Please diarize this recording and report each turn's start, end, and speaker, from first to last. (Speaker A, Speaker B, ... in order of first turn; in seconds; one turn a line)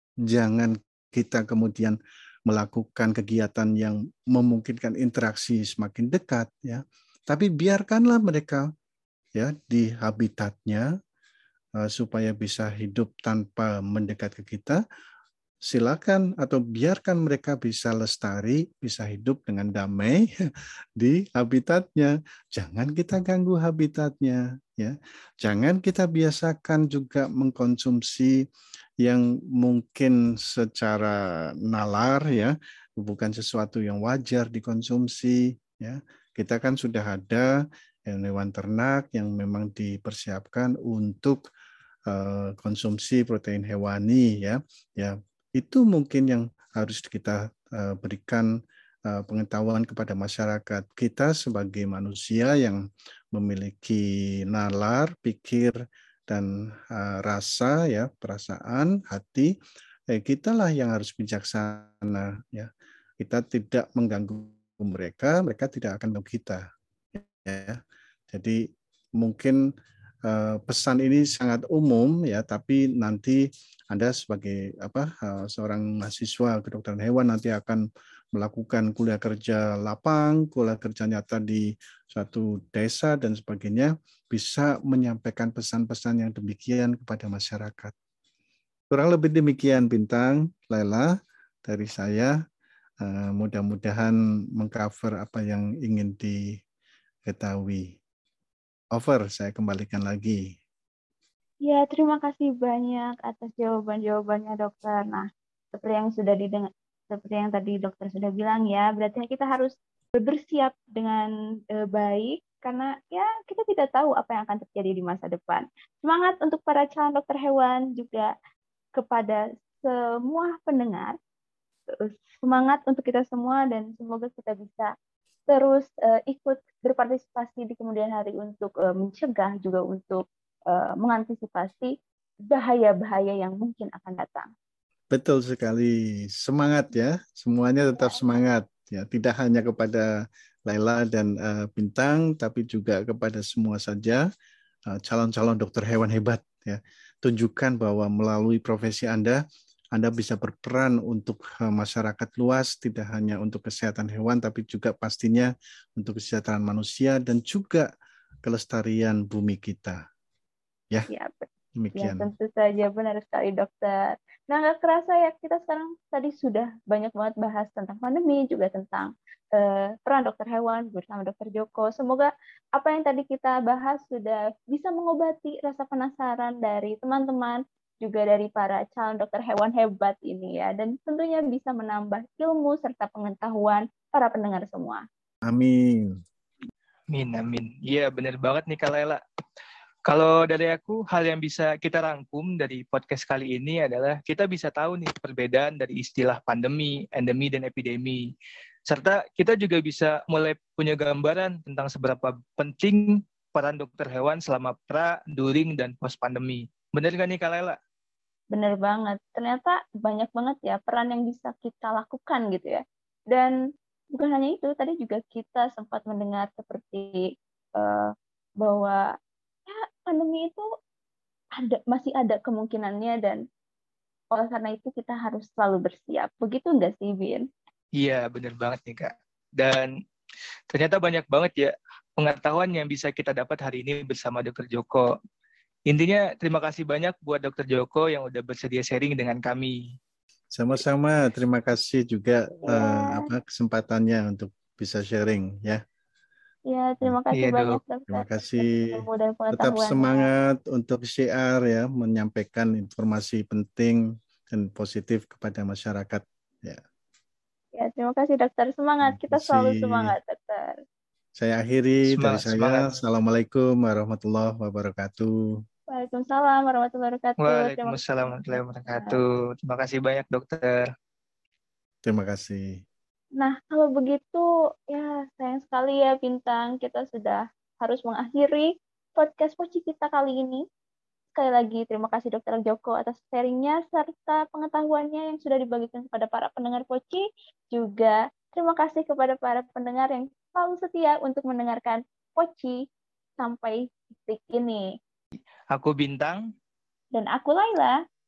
Speaker A: 0.3-8.7
Speaker A: 9.4-10.9
Speaker A: 11.8-14.8
Speaker A: 15.7-20.3
Speaker A: 21.0-28.4
Speaker A: 29.0-37.5
Speaker A: 38.1-41.4
Speaker A: 42.1-48.5
Speaker A: 49.1-52.8
Speaker A: 53.3-55.8
Speaker A: 56.3-59.5
Speaker A: 60.1-66.6
Speaker A: 67.1-67.8
Speaker A: 68.3-68.6
Speaker A: 69.2-69.6
Speaker A: 70.2-77.8
Speaker A: 78.3-87.9
Speaker A: 88.9-91.1
Speaker A: 91.6-92.3
Speaker A: 93.0-96.4
Speaker A: 97.3-98.0
Speaker A: 98.9-100.5
Speaker B: 101.6-118.3
Speaker B: 119.0-121.1
Speaker B: 122.0-124.9
Speaker B: 125.5-131.9
Speaker B: 132.5-134.5
Speaker A: 135.1-140.1
Speaker A: 140.7-144.3
Speaker A: 144.9-149.4
Speaker A: 149.9-157.9
Speaker A: 158.4-160.0
Speaker B: 161.1-185.0
Speaker A: 161.8-162.3
Speaker A: 185.4-186.2
Speaker C: 187.1-189.2
Speaker C: 190.1-198.3
Speaker C: 198.9-207.8
Speaker B: 208.5-213.5
Speaker B: 214.1-219.0
Speaker B: 219.7-220.6
Speaker B: 221.6-223.4
Speaker B: 224.3-227.4
Speaker C: 228.0-229.9
Speaker C: 230.7-235.1
Speaker C: 235.9-239.8
Speaker A: 240.5-245.8
Speaker B: 242.7-243.3
Speaker B: 246.7-250.3
Speaker C: 247.3-247.8
Speaker A: 248.1-256.8
Speaker B: 257.8-260.8
Speaker A: 259.0-260.1
Speaker A: 261.4-265.3
Speaker C: 262.1-262.9
Speaker B: 265.9-269.2
Speaker C: 267.4-270.9
Speaker A: 272.1-272.8
Speaker B: 273.4-280.6
Speaker B: 281.4-292.8
Speaker B: 293.4-294.8
Speaker C: 295.7-296.5
Speaker B: 297.1-298.0